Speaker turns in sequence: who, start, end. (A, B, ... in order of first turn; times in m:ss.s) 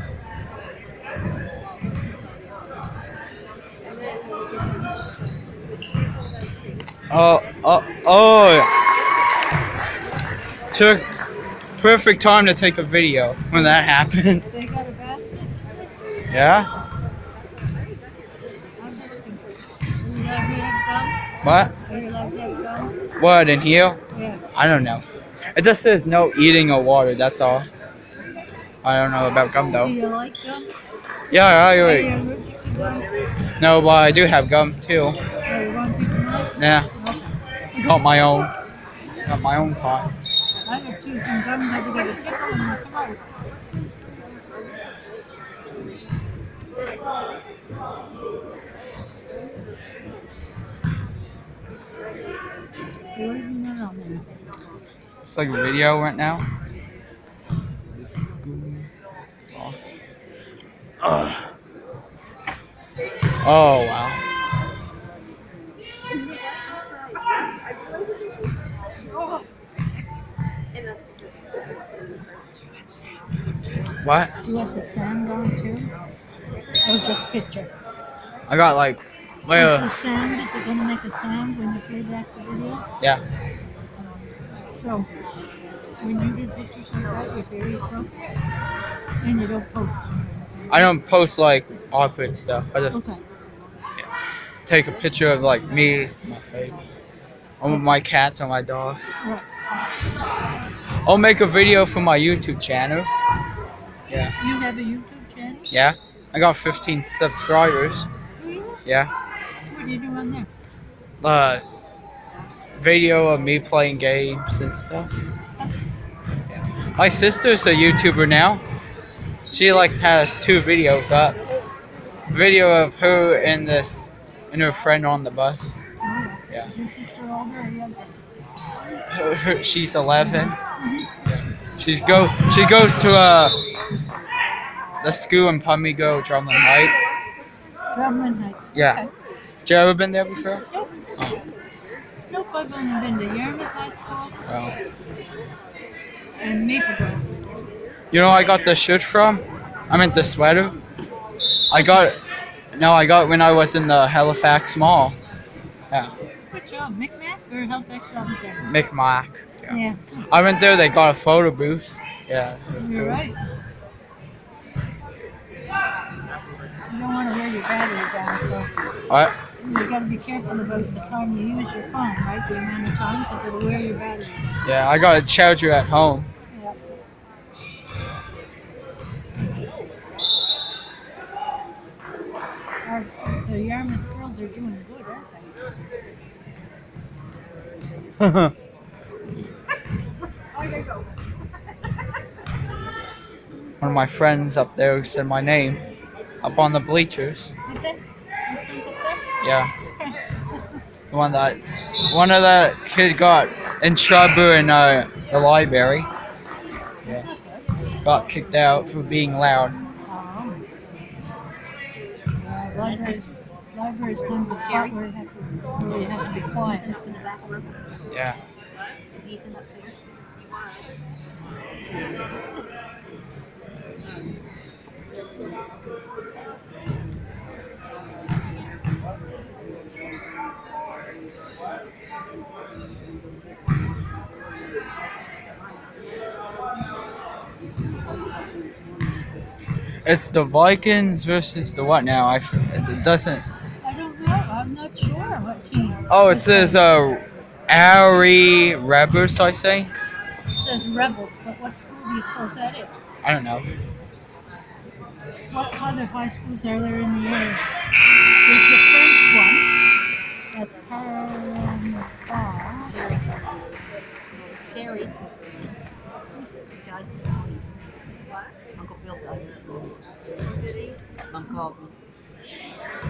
0:07.1-0:08.7 A
0:10.7-0:11.0 A
0:11.8-0:14.4 A
0:13.5-0:13.8 B
0:14.5-0:15.7 B
0:16.2-0:16.7 A
0:18.8-0:21.2 B
0:21.4-0:21.7 A
0:21.8-0:23.0 B
0:23.2-0:24.0 A
0:24.1-0:24.4 B
0:24.5-0:27.7 A
0:28.8-0:29.9 A
0:29.7-0:30.7 B
0:31.3-0:32.1 A
0:31.8-0:33.1 B
0:33.6-0:35.2 A
0:35.4-0:37.3 B
0:36.6-0:36.9 A
0:37.7-0:38.5 A
0:39.2-0:40.2 A
0:40.6-0:43.2 B
0:53.1-0:54.3 B
0:55.2-0:56.4 A
0:57.9-0:58.9 A
0:59.5-0:59.8 A
1:01.0-1:01.5 A
1:03.4-1:04.2 A
1:09.1-1:09.4 B
1:14.0-1:14.3 A
1:14.4-1:15.9 B
1:16.8-1:17.7 B
1:18.5-1:19.9 A
1:19.5-1:22.8 B
1:24.7-1:25.1 B
1:26.0-1:28.3 B
1:29.2-1:30.9 B
1:30.7-1:33.0 A
1:32.9-1:33.2 B
1:34.6-1:36.8 A
1:37.6-1:39.0 A
1:39.2-1:39.5 B
1:41.0-1:43.1 A
1:44.4-1:45.7 B
1:45.7-1:48.1 A
1:48.4-1:48.8 B
1:48.8-1:49.1 A
1:49.7-1:50.5 B
1:51.2-1:51.6 A
1:52.8-1:55.1 A
1:56.5-1:58.6 A
1:59.5-2:01.4 A
2:02.3-2:05.8 A
2:06.0-2:08.2 B
2:09.1-2:10.6 A
2:10.2-2:11.1 B
2:11.2-2:13.6 A
2:15.0-2:17.0 A
2:17.9-2:19.1 B
2:18.7-2:19.0 A
2:19.6-2:20.6 A
2:22.3-2:24.4 B
2:24.5-2:24.8 A
2:26.4-2:27.2 B
2:28.1-2:30.8 A
2:31.7-2:32.2 A
2:31.7-2:32.2 B
2:32.7-2:35.2 A
2:36.5-2:38.6 B
2:38.6-2:39.8 A
2:39.7-2:40.1 B
2:40.3-2:43.2 A
2:42.8-2:43.4 B
2:46.9-2:48.7 B
2:49.1-2:49.3 A
2:49.6-2:54.6 B
2:54.6-2:56.3 A
2:56.5-2:56.8 B
3:02.8-3:05.5 B
3:08.2-3:08.5 A
3:13.8-3:15.8 A
3:16.4-3:17.5 A
3:17.6-3:19.2 B
3:19.4-3:19.7 A
3:19.9-3:20.8 B
3:21.1-3:26.1 A
3:27.0-3:27.7 B
3:28.0-3:29.8 A
3:30.0-3:30.6 B
3:32.4-3:36.9 B
3:32.8-3:33.3 C
3:34.4-3:35.0 C
3:36.0-3:38.1 C
3:38.1-3:38.4 A
3:39.1-3:40.0 C
3:40.5-3:41.0 C
3:41.9-3:42.6 C
4:00.0-4:03.4 A
4:03.8-4:06.8 B
4:06.1-4:09.9 A
4:10.5-4:13.0 B
4:13.2-4:13.6 A
4:15.5-4:17.6 B
4:18.4-4:19.7 B
4:20.5-4:22.9 B
4:22.8-4:23.8 C
4:24.3-4:25.6 C
4:26.6-4:28.2 C
4:28.7-4:30.1 C
4:30.7-4:32.0 C